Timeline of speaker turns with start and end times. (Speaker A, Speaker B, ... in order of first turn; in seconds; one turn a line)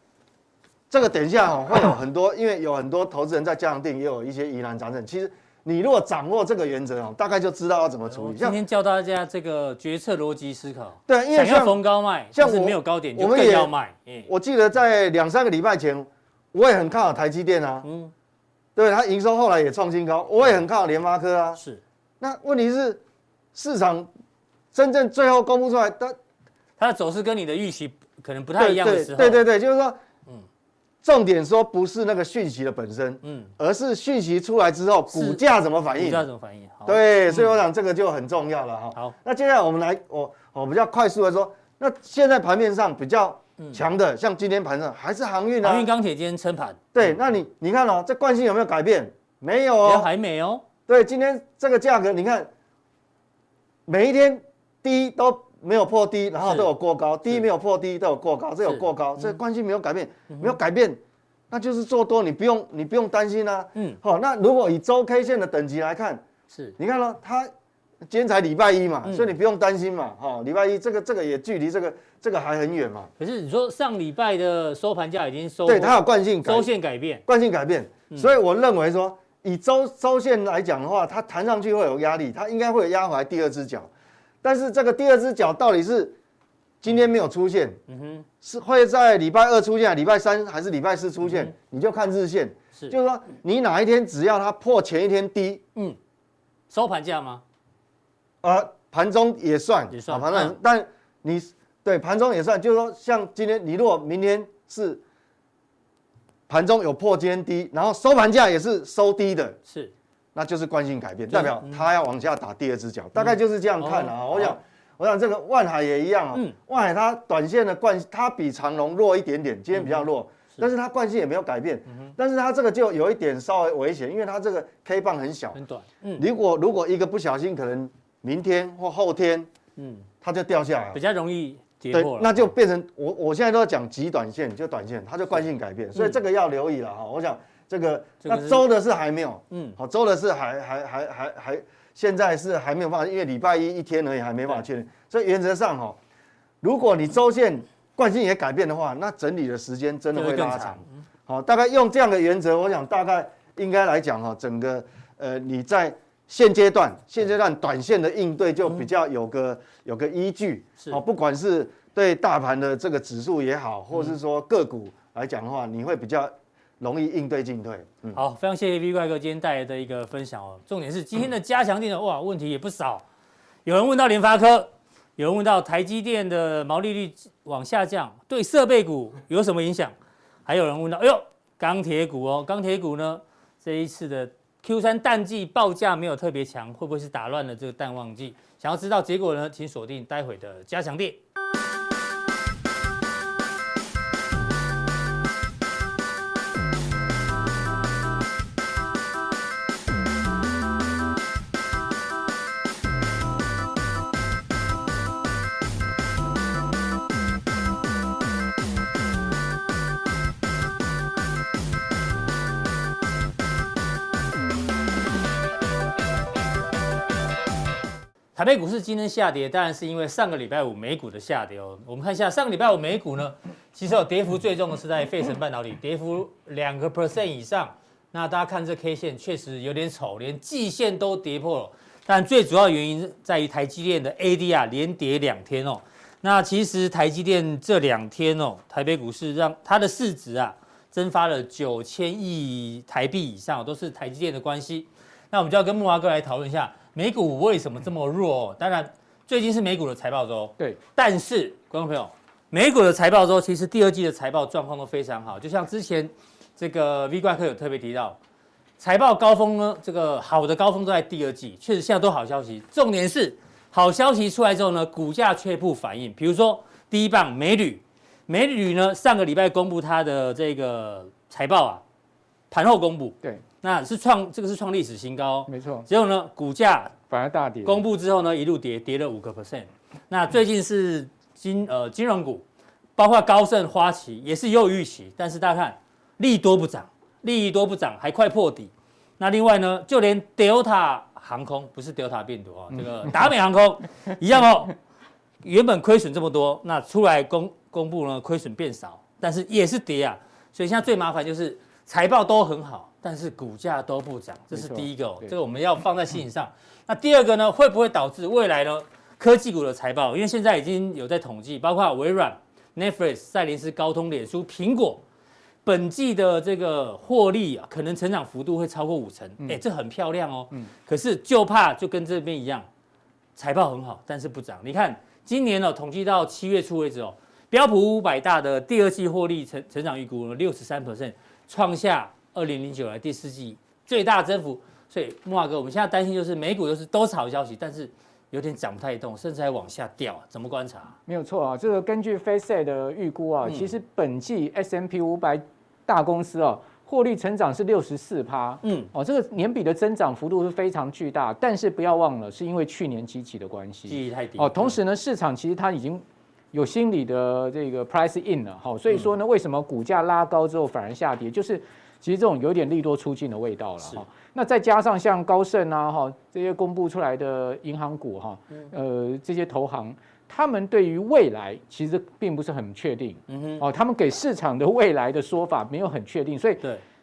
Speaker A: 0.9-8.6
Speaker B: 8.1-14.3
Speaker A: 11.1-11.8
Speaker A: 12.3-13.7
Speaker A: 14.3-17.9
Speaker B: 17.8-18.1
Speaker A: 18.8-21.6
Speaker A: 22.2-23.0
Speaker A: 23.5-24.1
Speaker A: 24.7-26.1
Speaker B: 26.8-29.4
Speaker A: 28.6-30.0
Speaker A: 31.0-36.2
Speaker B: 33.2-33.5
Speaker B: 35.1-35.4
Speaker B: 35.9-37.6
Speaker A: 36.9-45.9
Speaker B: 45.6-46.9
Speaker A: 46.9-50.1
Speaker B: 49.8-50.6
Speaker A: 50.9-52.5
Speaker A: 53.9-61.0
Speaker B: 56.4-56.7
Speaker B: 58.6-59.4
Speaker B: 60.3-60.5
Speaker A: 61.5-66.2
Speaker A: 66.8-67.5
Speaker A: 68.1-73.1
Speaker B: 73.2-77.2
Speaker A: 75.7-76.7
Speaker A: 77.3-83.9
Speaker A: 84.4-86.2
Speaker A: 86.8-87.8
Speaker B: 87.9-88.2
Speaker A: 88.4-95.6
Speaker B: 91.2-91.5
Speaker B: 96.7-97.4
Speaker A: 98.4-105.0
Speaker B: 99.9-100.5
Speaker A: 106.5-109.6
Speaker A: 110.3-125.6
Speaker B: 111.3-111.8
Speaker B: 113.2-114.6
Speaker B: 119.7-120.6
Speaker B: 125.5-126.2
Speaker A: 126.2-129.5
Speaker B: 129.8-130.1
Speaker A: 130.2-131.0
Speaker B: 130.9-132.5
Speaker A: 131.9-146.0
Speaker B: 138.2-138.6
Speaker B: 139.5-139.8
Speaker A: 146.6-168.2
Speaker B: 150.1-150.9
Speaker B: 168.1-173.0
Speaker B: 173.6-179.9
Speaker B: 180.4-191.2
Speaker B: 218.3-258.2
Speaker B: 258.8-271.8
Speaker B: 272.5-276.9
Speaker C: 275.5-275.9
Speaker C: 277.1-277.8
Speaker B: 277.6-282.4
Speaker B: 283.0-294.8
Speaker B: 295.4-315.0
Speaker C: 304.5-305.3
Speaker B: 315.6-322.6
Speaker B: 323.4-340.9
Speaker C: 341.1-376.6
Speaker B: 348.6-348.9
Speaker B: 353.9-354.8
Speaker B: 373.3-373.6